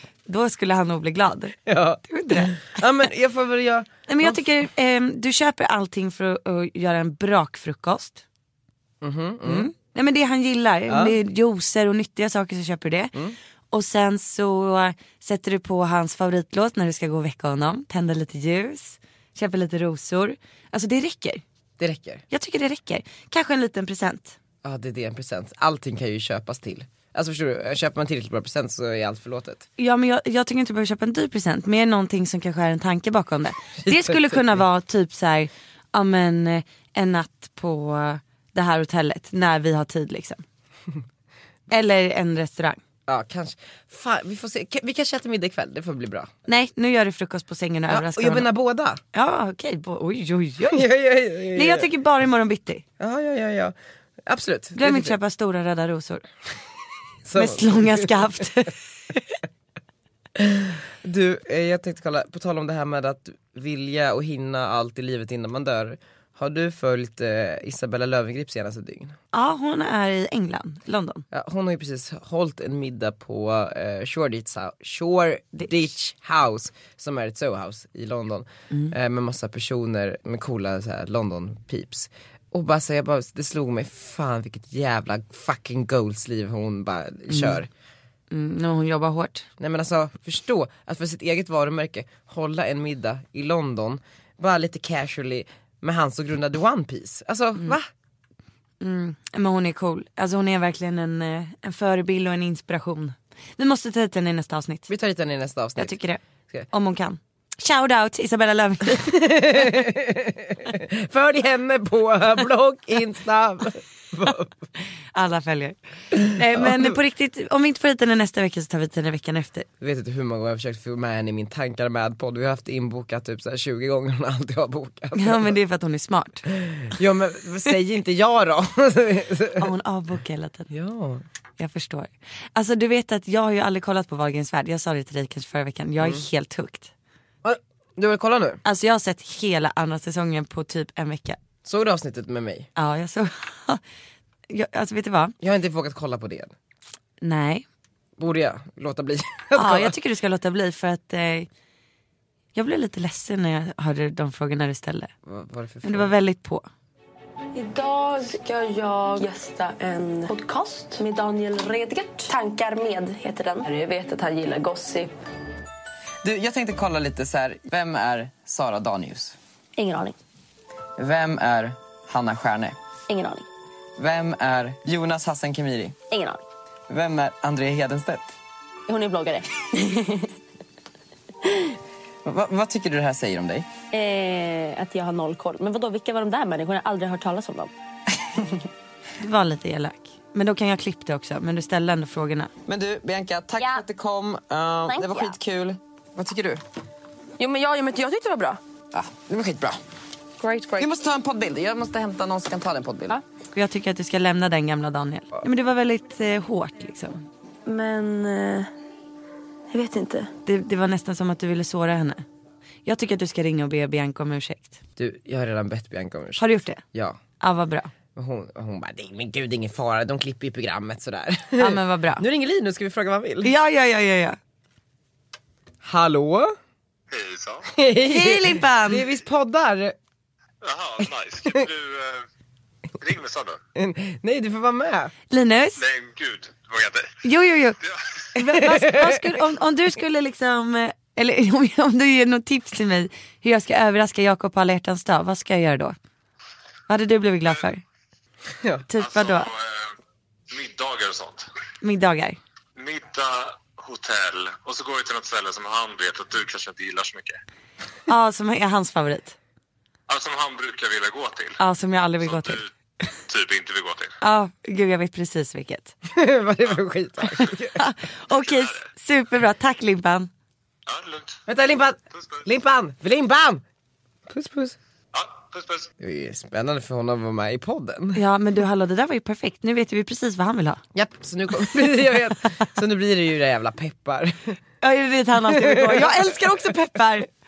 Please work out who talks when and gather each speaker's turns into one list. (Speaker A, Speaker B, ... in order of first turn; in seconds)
Speaker A: 0.2-2.8, 4.1-8.2, 9.4-13.1, 13.7-21.4, 22.3-24.4, 29.8-40.4, 41.7-42.8, 46.5-48.5, 49.1-50.9, 51.5-52.8, 54.7-56.2, 57.3-59.3, 69.3-71.2, 87.3-87.6, 88.3-89.5, 98.8-104.9, 105.8-109.8, 115.1-119.7, 125.1-126.4, 129.6-130.7, 131.6-136.9, 138.6-141.4, 142.8-143.8, 144.5-145.3, 147.2-147.7, 149.5-151.5, 152.5-155.1, 155.8-156.7, 189.2-192.5, 203.5-207.3, 210.4-212.2, 212.8-214.8, 216.4-216.8, 217.4-217.9, 221.6-222.2, 223.4-224.4, 228.0-229.1, 235.3-235.8, 237.2-237.8, 238.3-245.9, 246.9-247.8, 248.9-249.5, 251.8-252.4, 258.1-259.4, 261.6-262.6, 264.2-265.9, 267.8-270.3, 278.1-280.8, 284.8-287.3
Speaker B: 1.7-4.4, 9.0-9.7, 10.9-11.2, 21.8-22.2, 24.6-29.7, 33.8-34.5, 43.1-46.3, 47.9-49.0, 50.7-51.9, 53.0-53.7, 54.2-55.1, 57.2-58.3, 60.4-69.2, 71.3-87.7, 89.6-97.9, 104.9-106.0, 109.0-114.5, 116.5-116.9, 119.8-125.5, 126.5-129.7, 130.7-131.2, 137.4-138.6, 141.6-142.7, 145.4-146.5, 148.2-149.9, 155.2-156.1, 215.0-217.2, 218.1-223.5, 225.8-226.5, 227.7-229.9, 233.8-235.1, 238.5-239.2, 266.1-267.8, 271.5-273.6, 274.3-274.8, 276.0-278.2, 280.9-284.6, 285.5-286.3
Speaker C: 157.5-165.1, 169.8-170.2, 173.1-173.4, 176.1-176.4, 178.9-180.3, 183.9-187.7, 193.6-193.8, 194.8-195.4, 197.4-198.6, 200.4-200.9, 207.7-208.7, 209.7-210.3
Speaker D: 166.2-169.4, 171.0-172.8, 174.0-176.0, 176.9-178.3, 182.2-183.7, 192.7-196.6, 198.9-199.8, 200.8-203.2
Speaker E: 227.1-227.7, 230.6-232.2, 233.0-233.6, 235.8-237.2, 249.0-249.9, 250.5-251.4, 252.8-257.4, 260.1-261.6, 262.2-262.7, 263.3-264.1, 268.5-268.8, 270.9-271.4, 272.1-272.4, 275.1-275.9